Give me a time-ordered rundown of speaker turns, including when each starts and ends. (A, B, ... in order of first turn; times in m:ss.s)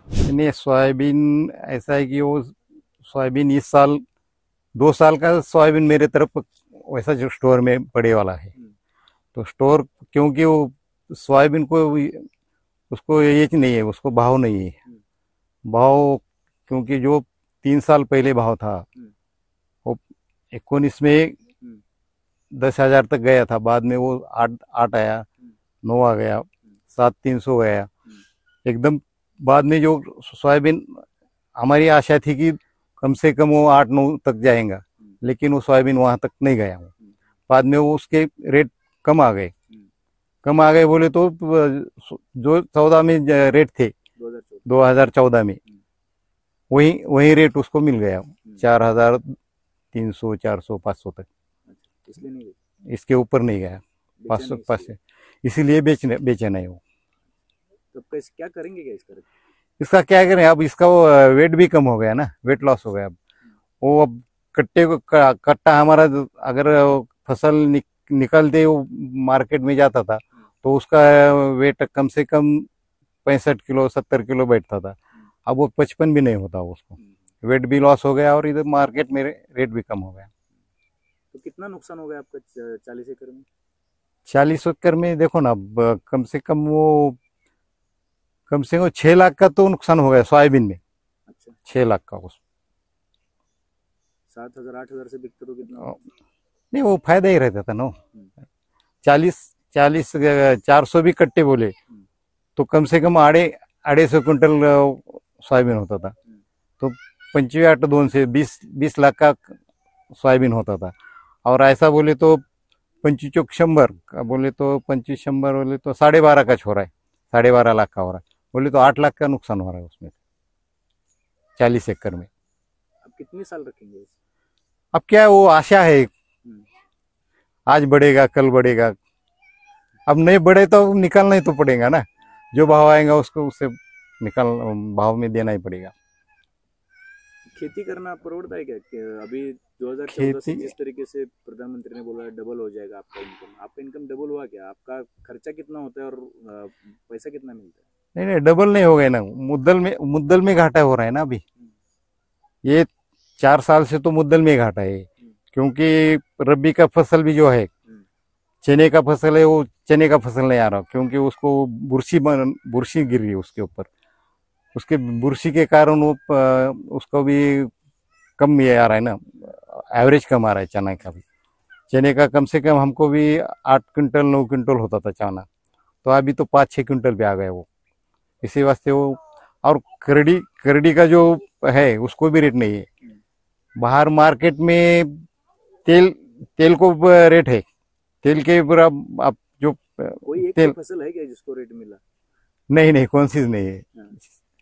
0:00.2-0:04.0 A
0:04.8-0:08.5 A
0:09.4-0:12.3 A
0:12.9-0:14.8 A
0:15.7-0:18.9 A
0:20.5-0:21.4 A
0:22.5-0:25.3 A
0:25.8-0:27.9 A
0:28.6-0:31.0 A
0:31.6-0:36.9 A
0:37.5-0:39.5 A
0:40.4-0:43.9 A
0:44.2-0:44.8 B
0:44.7-0:45.6 A
0:46.7-0:49.3 A
0:49.9-0:51.3 A
0:51.7-0:52.6 B
0:52.9-0:56.8 A
0:54.2-0:54.9 B
0:57.9-0:59.3 B
0:59.8-1:03.2 A
1:03.8-1:12.7 A
1:13.2-1:20.3 A
1:21.3-1:23.5 B
1:24.3-1:27.2 A
1:28.5-1:30.8 A
1:31.3-1:31.6 B
1:31.7-1:32.4 A
1:34.3-1:36.0 B
1:36.7-1:38.0 A
1:39.0-1:41.8 A
1:42.6-1:46.1 A
1:46.8-1:49.6 A
1:50.1-1:50.9 A
1:51.4-1:52.4 A
1:53.0-2:00.2 A
2:01.6-2:02.3 A
2:03.0-2:04.2 B
2:04.9-2:06.1 A
2:07.7-2:09.0 A
2:10.1-2:15.9 A
2:17.5-2:27.8 B
2:20.1-2:20.7 A
2:28.2-2:31.4 A
2:32.6-2:37.7 A
2:38.6-2:43.9 A
2:44.8-2:47.7 A
2:48.4-2:51.2 A
2:51.9-2:55.5 A
2:56.0-2:57.7 A
2:58.4-3:02.9 A
3:03.8-3:05.2 A
3:05.8-3:07.6 A
3:08.2-3:10.7 A
3:10.2-3:12.0 B
3:12.7-3:13.9 A